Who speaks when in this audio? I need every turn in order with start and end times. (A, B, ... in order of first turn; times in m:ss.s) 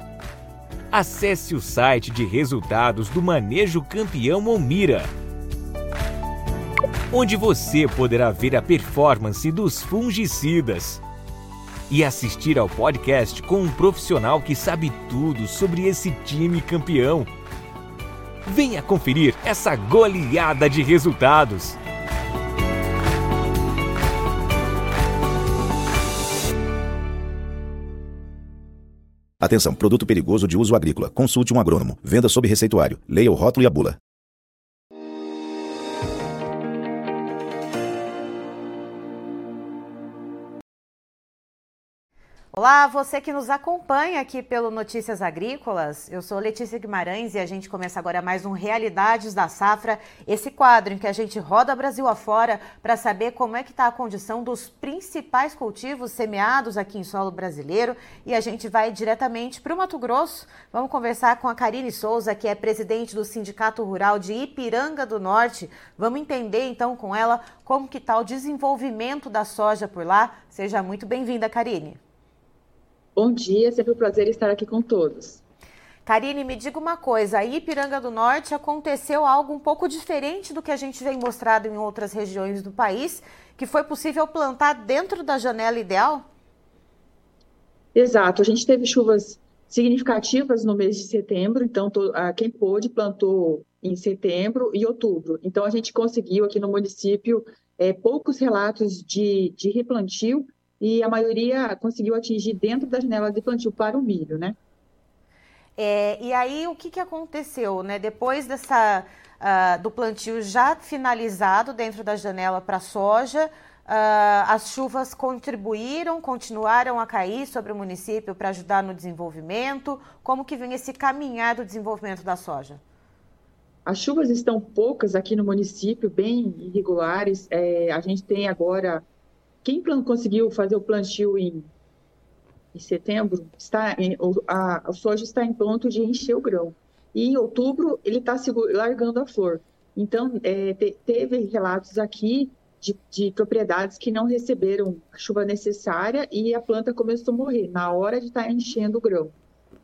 0:00.9-0:05.1 A
0:07.1-0:11.0 A
0:11.9-0:17.3 A
0:18.4-0:21.8 A
0:29.4-0:34.0 B
0:42.5-1:12.0 C
1:13.2-1:15.4 D
1:16.0-1:26.2 C
1:27.9-1:44.6 D
1:45.8-2:02.8 C
2:03.8-2:09.0 D
2:09.6-2:11.7 D
2:12.7-2:29.3 D